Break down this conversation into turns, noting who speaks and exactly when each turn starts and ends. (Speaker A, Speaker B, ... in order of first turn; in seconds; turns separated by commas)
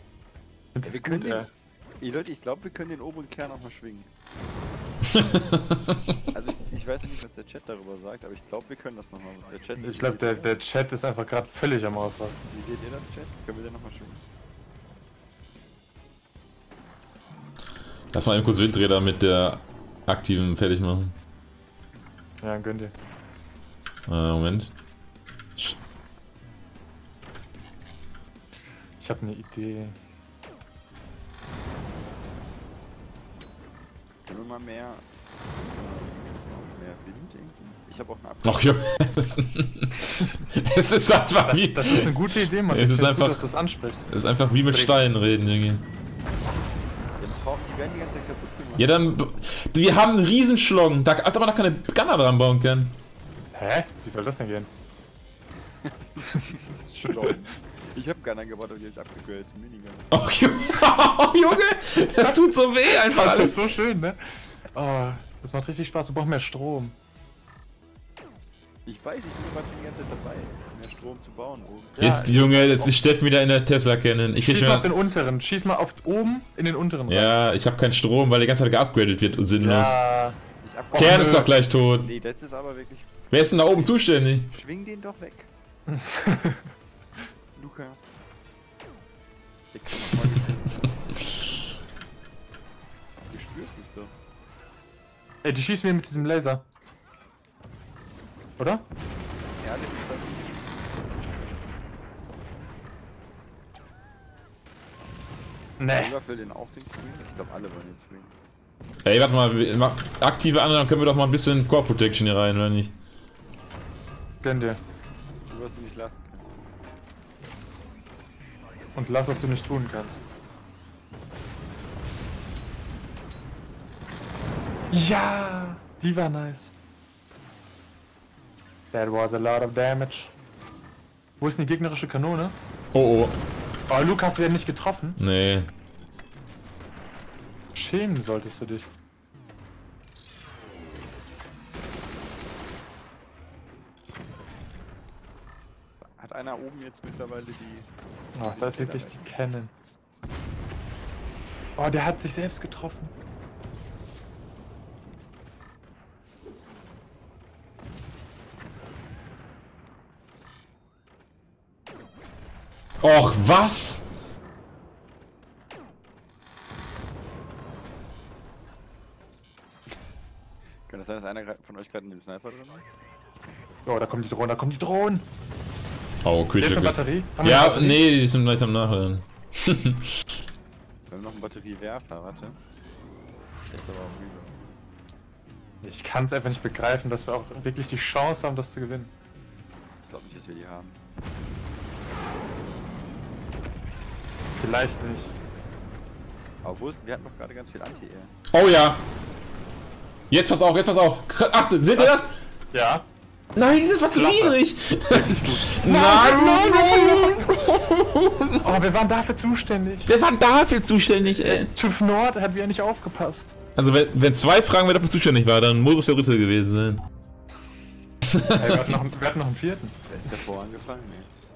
Speaker A: 0.7-1.5, Speaker B: 0.8-1.5, Speaker B: 2.0-4.1, Speaker C: 5.1-5.9, Speaker B: 6.3-10.6, Speaker A: 9.8-12.4, Speaker B: 12.5-14.2, Speaker C: 18.1-21.1, Speaker A: 22.4-22.9, Speaker C: 24.1-24.7, Speaker A: 29.0-30.0, Speaker B: 34.3-35.0, Speaker B: 35.6-38.8, Speaker C: 38.4-42.1, Speaker A: 41.4-44.0, Speaker C: 42.7-43.4, Speaker C: 44.1-45.8, Speaker B: 44.7-45.0, Speaker B: 47.2-48.9, Speaker C: 48.8-53.0, Speaker A: 53.5-54.7, Speaker B: 55.9-60.1, Speaker C: 60.1-63.6, Speaker A: 62.2-64.2, Speaker A: 64.7-67.0, Speaker B: 68.8-72.0, Speaker A: 72.0-73.0, Speaker C: 72.0-74.9, Speaker A: 74.4-77.4, Speaker C: 77.1-80.0, Speaker A: 79.6-80.4, Speaker B: 80.6-83.3, Speaker A: 80.9-81.5, Speaker C: 80.9-82.1, Speaker C: 83.3-84.5, Speaker B: 84.5-85.5, Speaker A: 85.9-86.6, Speaker B: 87.5-88.0, Speaker B: 89.7-90.9, Speaker B: 93.3-94.1, Speaker A: 95.4-96.6, Speaker A: 98.6-98.8, Speaker B: 99.6-100.7, Speaker A: 105.8-106.1, Speaker B: 105.9-108.3, Speaker C: 109.0-112.9, Speaker A: 114.4-114.8, Speaker B: 115.5-116.6, Speaker A: 118.9-120.3, Speaker A: 124.9-126.7, Speaker A: 128.9-130.3, Speaker A: 131.4-132.6, Speaker C: 132.9-133.4, Speaker A: 133.9-135.2, Speaker C: 135.2-135.7, Speaker A: 137.7-138.9, Speaker B: 146.2-147.9, Speaker A: 148.3-149.7, Speaker B: 148.4-149.2, Speaker A: 151.8-153.1, Speaker C: 163.0-164.1, Speaker B: 170.9-172.8, Speaker A: 173.8-175.3, Speaker C: 176.2-180.1, Speaker A: 176.6-178.0, Speaker B: 181.1-182.6, Speaker B: 183.7-184.6, Speaker A: 185.8-189.1, Speaker B: 190.0-191.0, Speaker A: 194.6-195.3, Speaker B: 196.6-198.3, Speaker C: 198.5-199.0, Speaker C: 200.3-202.3, Speaker A: 201.9-202.2, Speaker A: 202.7-203.1, Speaker C: 203.5-208.6, Speaker A: 204.1-204.6, Speaker A: 205.1-207.4, Speaker A: 208.6-210.1, Speaker C: 210.1-211.7, Speaker A: 211.2-213.5, Speaker C: 213.8-217.0, Speaker C: 218.3-218.8, Speaker A: 218.5-219.9, Speaker B: 220.1-221.3